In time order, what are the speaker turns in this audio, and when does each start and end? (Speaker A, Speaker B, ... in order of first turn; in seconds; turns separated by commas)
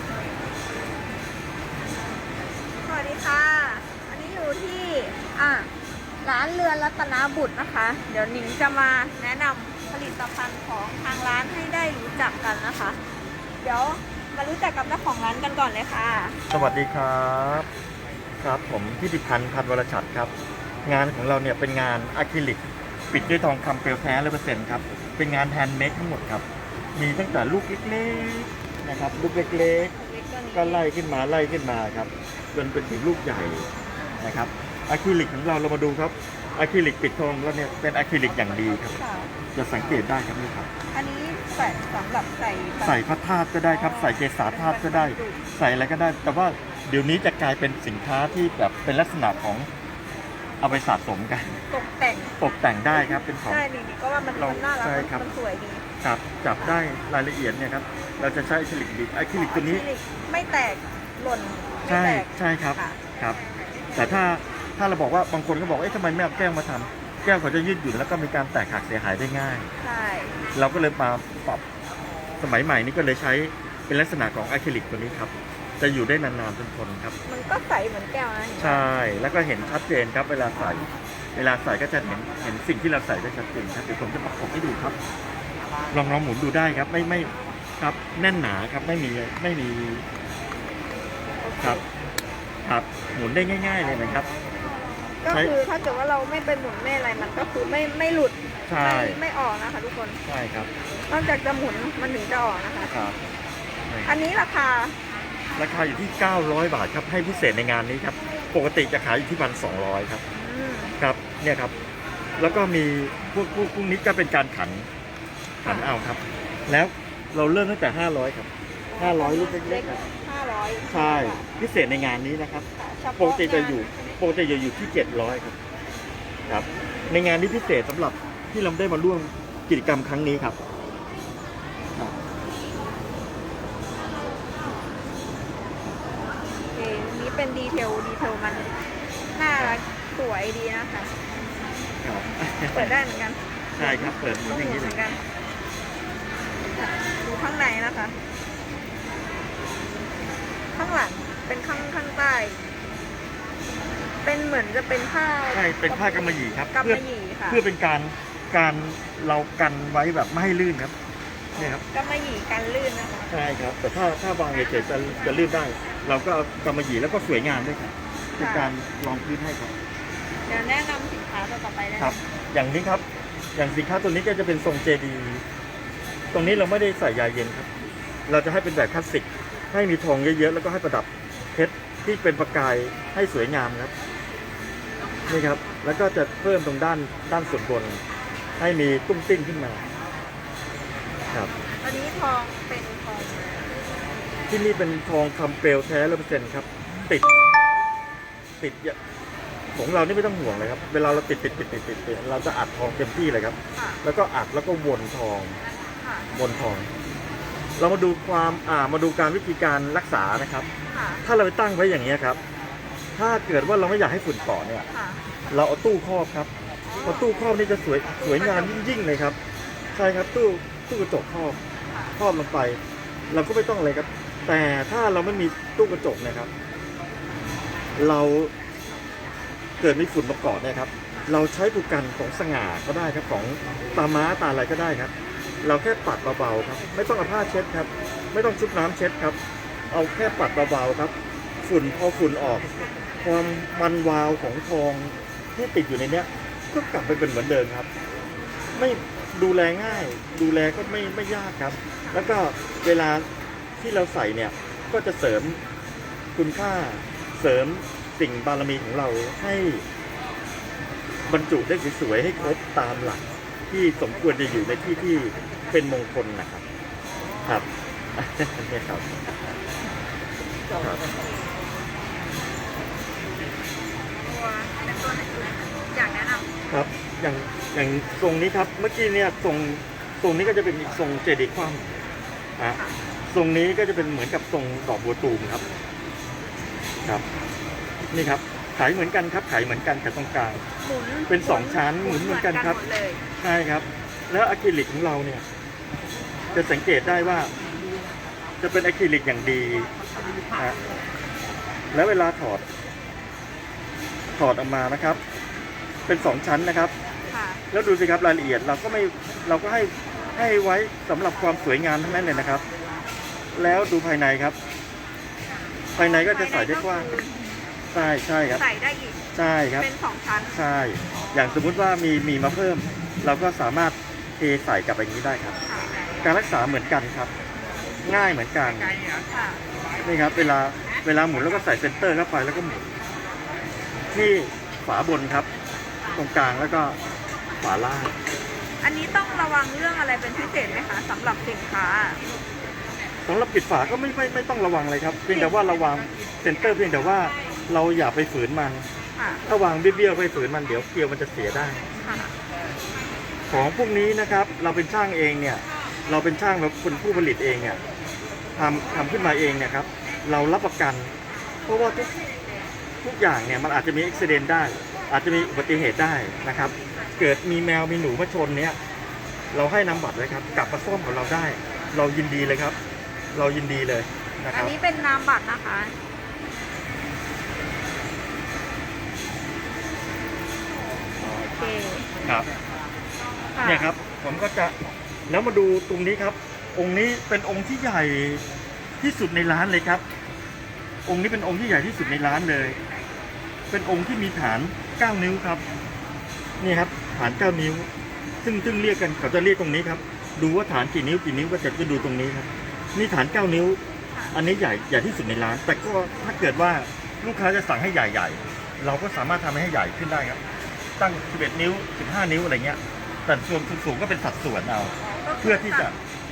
Speaker A: 2.8-5.7, Speaker A: 6.2-13.0, Speaker A: 13.6-16.4, Speaker B: 16.5-17.7, Speaker B: 18.4-20.3, Speaker B: 20.9-26.4, Speaker B: 27.0-29.9, Speaker A: 30.0-30.9, Speaker B: 30.5-33.7, Speaker B: 34.2-39.0, Speaker A: 39.0-39.3, Speaker B: 39.5-40.7, Speaker A: 40.9-43.0, Speaker B: 42.8-49.7, Speaker A: 43.7-45.4, Speaker B: 50.6-51.5, Speaker A: 51.7-52.4, Speaker B: 52.4-53.6, Speaker A: 53.0-55.8, Speaker B: 54.3-55.2, Speaker B: 56.0-59.9, Speaker A: 59.3-63.0, Speaker B: 61.9-63.4, Speaker B: 64.0-69.7, Speaker A: 69.8-70.4, Speaker B: 70.5-71.6, Speaker B: 72.4-77.2, Speaker A: 77.3-78.8, Speaker B: 78.6-85.0, Speaker B: 85.9-90.0, Speaker A: 91.4-91.8, Speaker B: 92.7-94.3, Speaker A: 95.2-100.2, Speaker B: 95.3-95.5, Speaker B: 98.7-99.2, Speaker B: 100.3-100.7, Speaker A: 101.1-102.9, Speaker B: 102.9-103.2, Speaker A: 104.1-105.0, Speaker B: 105.6-110.2, Speaker A: 110.3-111.0, Speaker B: 111.0-111.7, Speaker B: 112.4-114.9, Speaker B: 115.6-120.0, Speaker A: 115.7-115.9, Speaker A: 118.9-121.5, Speaker B: 120.9-122.7, Speaker A: 122.8-124.2, Speaker B: 123.2-125.6, Speaker B: 126.5-130.6, Speaker A: 136.7-138.7, Speaker A: 139.4-141.1, Speaker B: 142.0-142.9, Speaker A: 142.7-145.2, Speaker B: 143.8-145.0, Speaker A: 146.7-148.1, Speaker A: 150.7-152.6, Speaker A: 154.2-157.6, Speaker B: 155.5-160.9, Speaker A: 161.5-163.3, Speaker B: 161.6-161.8, Speaker B: 163.3-169.7, Speaker A: 164.8-165.4, Speaker A: 168.4-168.7, Speaker A: 170.5-172.2, Speaker B: 172.0-173.0, Speaker B: 173.6-175.4, Speaker B: 176.3-177.7, Speaker B: 178.3-183.9, Speaker B: 185.3-188.0, Speaker B: 188.6-189.8, Speaker A: 191.8-193.7, Speaker B: 194.5-197.3, Speaker B: 198.6-199.0, Speaker B: 199.8-205.6, Speaker A: 203.8-204.0, Speaker A: 206.0-206.3, Speaker B: 206.3-206.9, Speaker B: 207.8-210.7, Speaker A: 210.9-211.2, Speaker B: 211.2-212.4, Speaker B: 213.2-214.9, Speaker A: 214.9-215.5, Speaker B: 215.5-216.5, Speaker A: 216.9-217.4, Speaker B: 217.0-219.4, Speaker A: 218.2-218.8, Speaker B: 219.9-221.6, Speaker A: 221.9-222.2, Speaker B: 222.2-222.8, Speaker B: 223.3-226.5, Speaker B: 228.0-228.5, Speaker B: 229.8-235.1, Speaker B: 235.6-239.4, Speaker B: 239.9-242.7, Speaker B: 243.2-247.9, Speaker B: 248.8-253.3, Speaker B: 253.8-255.6, Speaker B: 256.4-259.8, Speaker B: 261.3-266.6, Speaker B: 267.4-269.1, Speaker A: 274.2-276.5, Speaker B: 276.7-281.9, Speaker B: 283.3-285.6, Speaker B: 288.1-290.6, Speaker A: 290.8-293.2, Speaker B: 291.3-292.8, Speaker B: 293.4-295.4, Speaker B: 296.5-297.5, Speaker B: 298.6-299.9, Speaker B: 301.9-302.6, Speaker B: 304.4-305.2, Speaker B: 306.1-306.9, Speaker A: 307.3-307.6, Speaker B: 307.7-312.6, Speaker B: 313.5-314.6, Speaker A: 315.9-317.4, Speaker B: 316.0-317.1, Speaker B: 317.9-318.6, Speaker A: 318.5-319.2, Speaker B: 319.3-319.9, Speaker A: 319.8-320.6, Speaker B: 320.5-325.6, Speaker A: 321.1-321.6, Speaker A: 325.7-326.2, Speaker B: 326.2-327.3, Speaker B: 328.1-329.0, Speaker A: 329.3-329.6, Speaker B: 330.0-332.9, Speaker B: 334.1-335.5, Speaker B: 336.1-337.0, Speaker B: 337.6-338.1, Speaker A: 338.8-342.2, Speaker B: 343.3-348.9, Speaker A: 349.2-349.4, Speaker B: 349.5-351.9, Speaker A: 352.0-352.3, Speaker B: 353.5-357.8, Speaker B: 358.6-361.1, Speaker B: 361.7-362.1, Speaker B: 363.0-368.8, Speaker B: 369.5-372.8, Speaker B: 373.3-374.7, Speaker A: 374.5-375.9, Speaker A: 381.2-382.1, Speaker B: 382.2-382.5, Speaker A: 383.6-383.9, Speaker B: 383.6-384.8, Speaker B: 385.3-388.4, Speaker B: 389.0-390.0, Speaker B: 391.1-392.8, Speaker B: 393.7-395.6, Speaker B: 396.6-397.9, Speaker B: 398.4-403.8, Speaker B: 404.3-410.4, Speaker B: 411.0-415.9, Speaker A: 415.1-415.9